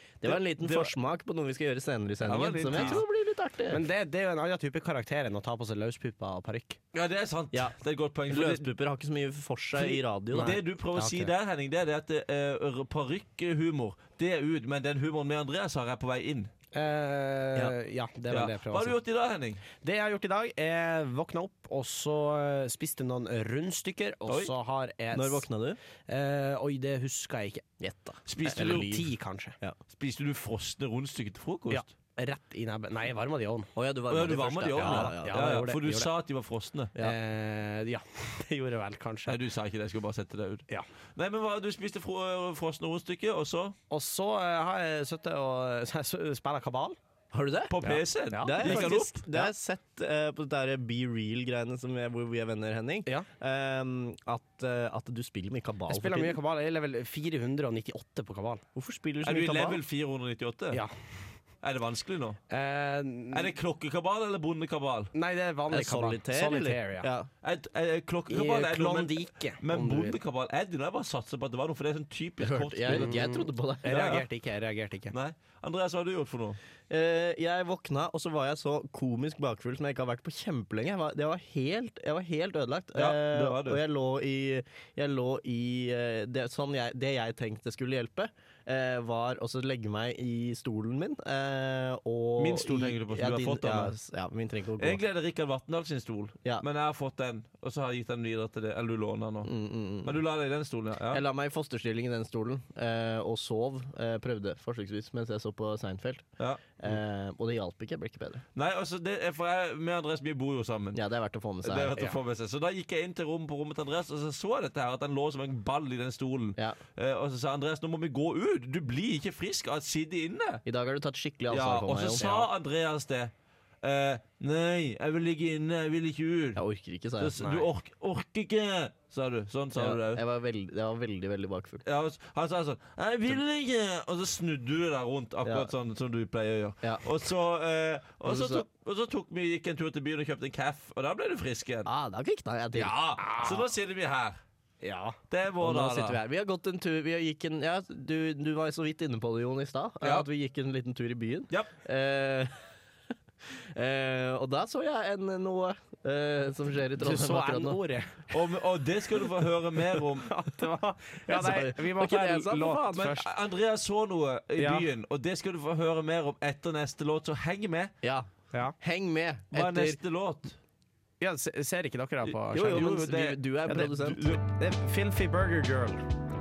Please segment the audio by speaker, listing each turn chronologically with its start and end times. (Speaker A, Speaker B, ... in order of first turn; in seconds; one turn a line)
Speaker A: 0.2-3.8
Speaker B: 0.2-0.9
Speaker B: 2.2-3.0
Speaker C: 3.7-6.8
Speaker B: 6.9-8.7
Speaker A: 8.3-10.6
Speaker B: 9.8-16.5
Speaker C: 10.3-11.3
Speaker C: 16.7-19.0
Speaker B: 18.3-19.6
Speaker C: 19.8-25.5
Speaker A: 25.1-25.8
Speaker C: 26.1-27.6
Speaker A: 27.8-29.1
Speaker B: 28.2-29.0
Speaker C: 28.5-29.6
Speaker B: 29.9-31.9
Speaker C: 31.7-33.7
Speaker A: 33.7-35.4
Speaker B: 34.1-36.9
Speaker C: 34.8-36.1
Speaker C: 37.0-39.4
Speaker B: 39.3-43.8
Speaker C: 43.9-47.0
Speaker A: 47.3-47.8
Speaker B: 47.7-49.5
Speaker C: 47.8-49.0
Speaker A: 48.4-56.4
Speaker C: 55.9-58.6
Speaker A: 58.7-59.8
Speaker B: 59.2-60.8
Speaker B: 61.6-62.4
Speaker C: 62.5-63.5
Speaker B: 63.3-65.1
Speaker C: 65.1-67.1
Speaker A: 65.7-67.3
Speaker B: 67.4-73.2
Speaker C: 68.3-70.2
Speaker A: 72.4-74.1
Speaker C: 72.9-75.1
Speaker B: 73.9-74.2
Speaker B: 75.1-76.6
Speaker A: 76.9-95.0
Speaker B: 82.9-83.8
Speaker B: 92.4-93.9
Speaker B: 94.8-101.2
Speaker A: 99.4-100.2
Speaker A: 101.1-106.2
Speaker B: 106.4-106.7
Speaker A: 106.8-108.4
Speaker B: 108.5-111.0
Speaker A: 110.9-112.0
Speaker B: 111.6-120.6
Speaker A: 120.6-122.5
Speaker B: 121.5-126.6
Speaker A: 126.5-127.4
Speaker B: 127.2-130.2
Speaker C: 127.4-127.7
Speaker A: 129.7-131.8
Speaker B: 131.8-141.9
Speaker A: 135.4-135.7
Speaker A: 136.8-137.1
Speaker A: 138.2-138.6
Speaker A: 141.8-143.2
Speaker B: 142.7-144.4
Speaker C: 143.2-143.6
Speaker C: 144.8-145.2
Speaker B: 145.3-146.2
Speaker A: 145.6-152.5
Speaker B: 150.0-150.3
Speaker A: 153.5-157.8
Speaker C: 157.0-158.3
Speaker B: 158.3-160.3
Speaker C: 160.2-163.2
Speaker A: 161.3-163.1
Speaker B: 162.9-167.9
Speaker C: 164.6-164.8
Speaker A: 168.0-168.3
Speaker A: 168.8-170.0
Speaker B: 169.5-170.6
Speaker C: 171.2-172.9
Speaker A: 172.5-174.2
Speaker B: 172.5-174.4
Speaker C: 173.7-176.1